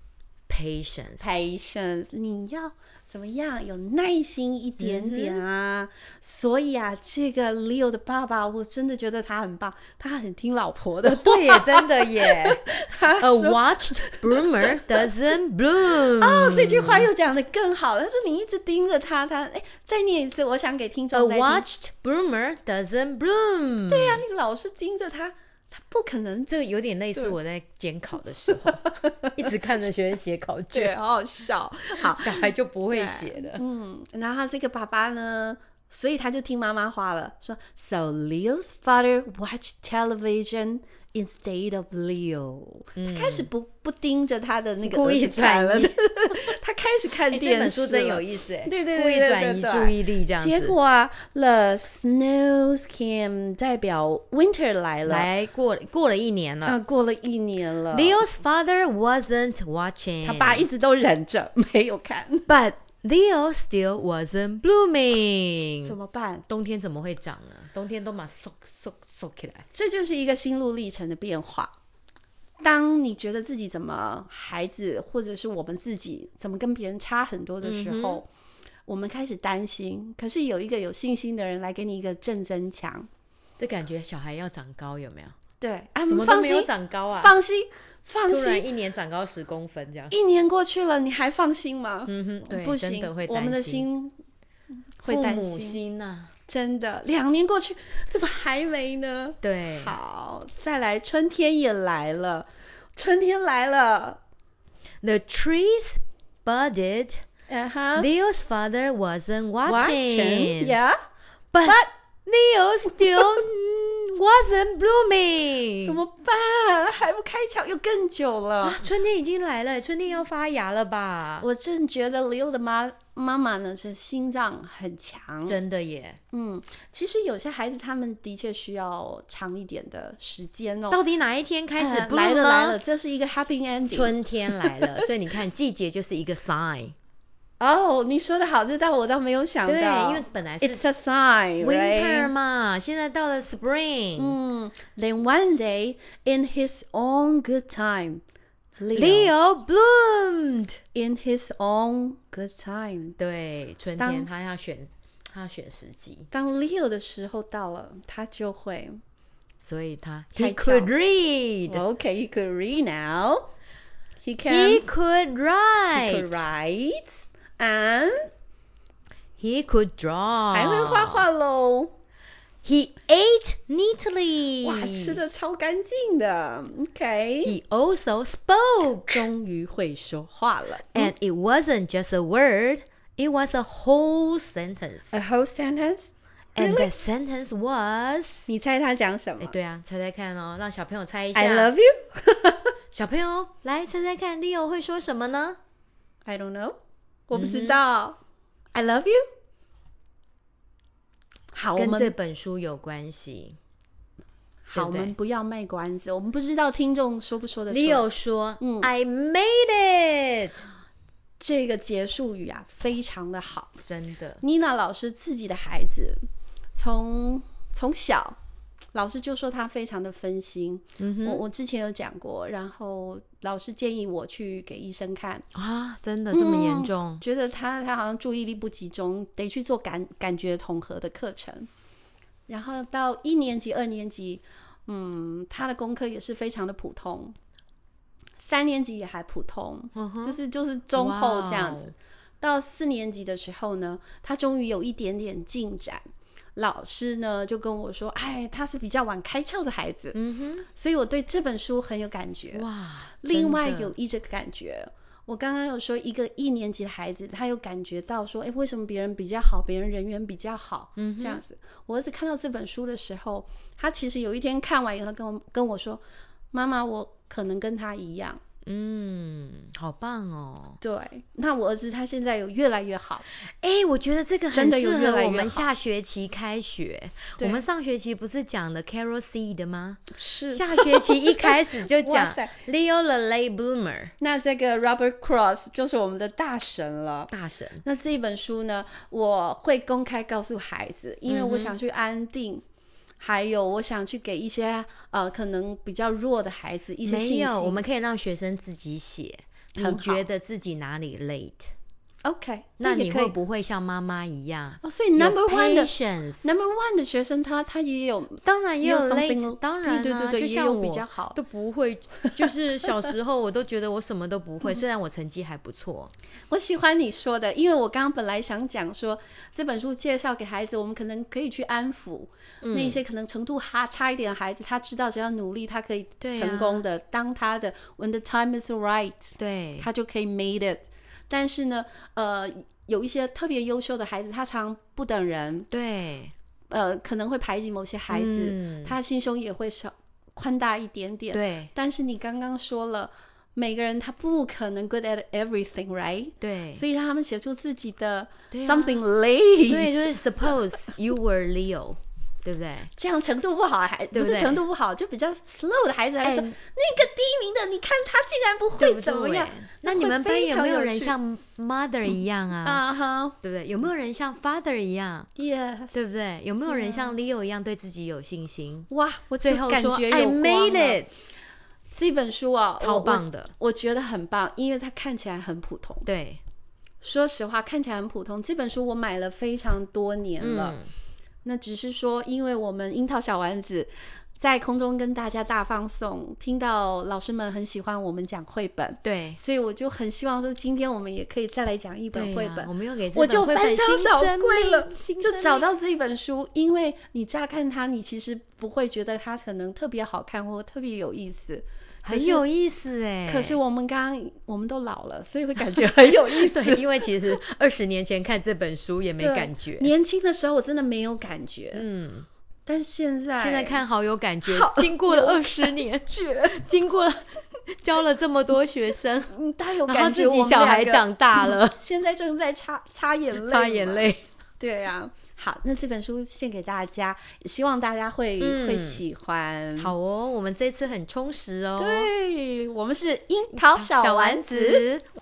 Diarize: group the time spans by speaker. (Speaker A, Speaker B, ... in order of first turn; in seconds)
Speaker A: 0.5-1.3, 4.8-5.4, 11.0-17.1, 21.1-24.2, 26.5-30.9, 32.1-33.6, 43.0-43.5, 44.8-45.9, 47.3-50.8, 55.0-56.8, 57.9-60.6, 62.5-65.9, 66.5-69.7, 77.6-78.2, 83.6-85.3, 86.1-87.3, 88.3-90.1, 92.1-93.9, 95.0-96.3, 99.4-100.0, 105.0-107.2, 108.0-110.8, 111.5-116.0, 118.6-121.5, 125.5-126.2, 130.9-132.8, 133.9-136.9, 139.6-140.8, 141.6-144.4, 148.9-150.8, 153.2-156.3, 159.6-161.8, 164.4-166.4, 169.4-171.2, 172.6-175.2, 177.4-179.3, 180.9-185.2, 186.6-188.5, 189.4-191.7, 192.9-195.6, 197.3-197.8, 201.8-203.6, 204.7-205.1, 207.7-210.6, 213.8-214.4, 221.0-221.4, 225.5-227.2, 239.9-240.4, 240.9-241.9, 250.1-250.7, 252.5-253.9, 261.0-261.4, 268.6-270.8, 273.4-284.1, 287.3-287.8, 291.3-291.7, 297.0-301.7, 302.8-306.5, 308.4-316.1, 322.6-323.0, 326.2-326.8, 329.4-329.9, 335.7-336.3, 338.1-338.9, 341.3-341.7, 346.4-346.8, 348.5-349.0, 349.6-352.9, 354.1-354.6, 356.2-356.5, 358.8-362.8, 363.4-365.3, 365.9-368.9, 369.4-371.1, 372.8-373.5, 376.0-376.4, 380.4-380.9, 389.0-389.4, 392.1-395.6, 402.1-403.6, 405.7-409.9, 411.7-412.3, 413.4-419.3, 419.9-421.8, 423.3-424.2, 428.4-429.0, 429.8-432.1, 433.7-435.0
Speaker B: 1.2-15.1, 15.9-21.6, 23.9-26.5, 28.7-29.3, 30.7-55.3, 56.6-58.2, 60.2-62.5, 65.8-66.4, 69.7-71.7, 72.6-78.3, 78.9-83.1, 85.6-88.7, 90.1-94.1, 95.0-95.8, 96.5-104.2, 107.5-108.1, 109.6-111.0, 111.6-111.9, 113.1-113.4, 115.8-118.8, 121.4-125.6, 126.3-131.0, 131.8-135.0, 137.6-142.3, 144.2-148.2, 148.8-149.3, 150.9-153.2, 154.0-154.3, 156.3-159.0, 160.3-160.9, 161.7-163.5, 164.2-164.9, 165.9-168.3, 170.5-171.9, 174.6-177.5, 179.1-181.1, 185.1-186.9, 188.5-189.5, 191.3-192.7, 196.2-196.8, 197.3-198.2, 198.7-199.2, 201.5-202.1, 204.7-208.0, 208.6-208.9, 211.4-213.8, 214.4-216.2, 216.8-218.4, 218.9-225.4, 226.3-231.7, 232.5-237.3, 238.4-246.0, 246.6-250.2, 250.7-252.7, 253.2-268.4, 270.8-273.2, 274.5-275.7, 277.4-277.6, 280.1-282.6, 284.2-292.6, 293.2-297.8, 299.8-300.2, 302.2-303.4, 304.8-311.4, 312.2-312.9, 316.5-335.7, 336.7-350.4, 352.9-361.1, 362.6-363.3, 365.4-366.0, 366.7-367.1, 368.9-371.0, 371.9-376.1, 377.0-380.8, 381.4-402.4, 403.3-406.8, 409.2-411.8, 412.7-413.8, 414.4-416.7, 419.3-429.9, 431.8-434.8